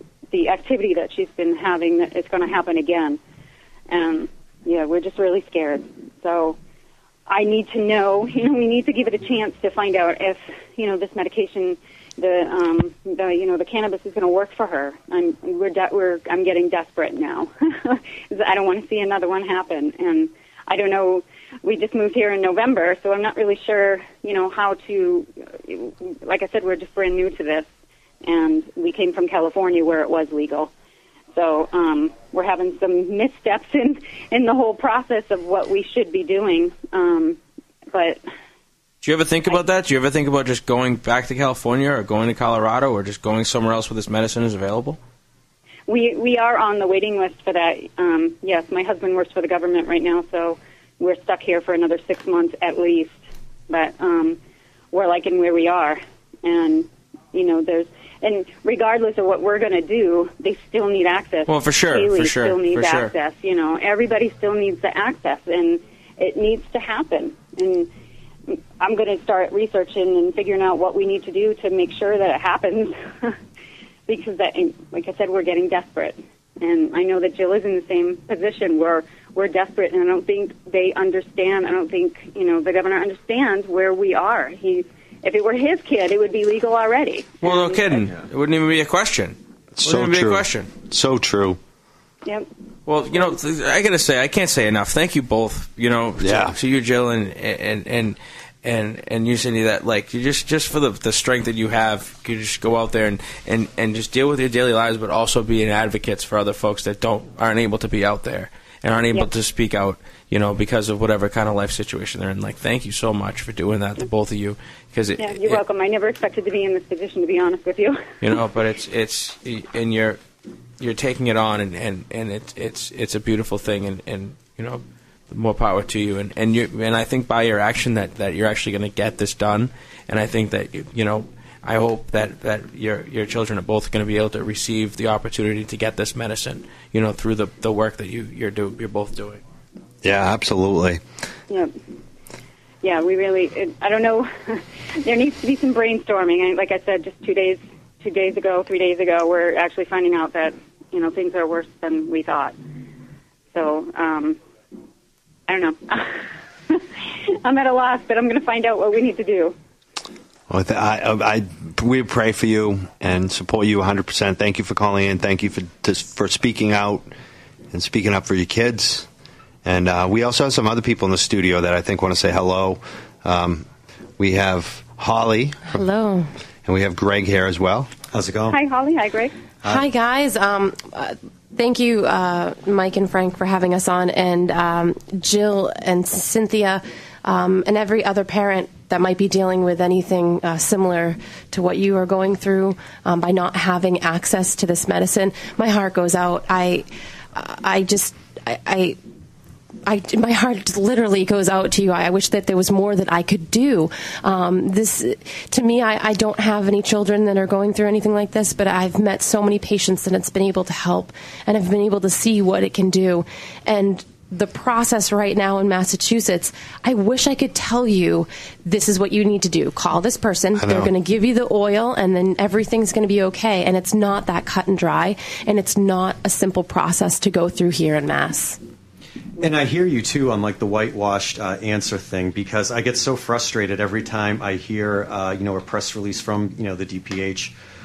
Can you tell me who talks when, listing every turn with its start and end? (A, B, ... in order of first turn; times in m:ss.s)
0:00.3-0:03.2 A
0:03.9-0:06.6 A
0:07.3-0:27.7 A
0:28.2-0:30.7 A
0:31.3-0:37.4 A
0:37.9-0:38.2 A
0:39.0-0:45.0 B
0:45.9-0:53.2 A
0:53.7-0:54.4 A
0:54.9-1:07.9 A
1:01.5-1:03.1 B
1:08.5-1:13.4 A
1:14.1-1:28.1 A
1:27.4-1:30.7 B
1:29.8-1:31.6 C
1:32.9-1:55.6 B
1:36.2-1:36.6 C
1:55.2-1:58.0 A
1:58.2-2:00.2 B
2:00.8-2:19.4 B
2:20.0-2:21.0 C
2:22.8-2:32.5 A
2:33.5-2:34.4 A
2:35.5-2:36.2 A
2:36.7-2:39.6 A
2:40.5-2:47.0 C
2:47.7-2:49.1 C
2:49.6-2:53.6 C
2:54.2-2:55.8 C
2:55.7-2:56.3 D
2:56.6-2:57.9 C
2:58.1-2:58.6 E
2:58.5-2:59.3 A
2:59.6-3:19.0 D
3:19.8-3:48.6 D
3:40.6-3:40.9 C
3:49.4-3:57.5 E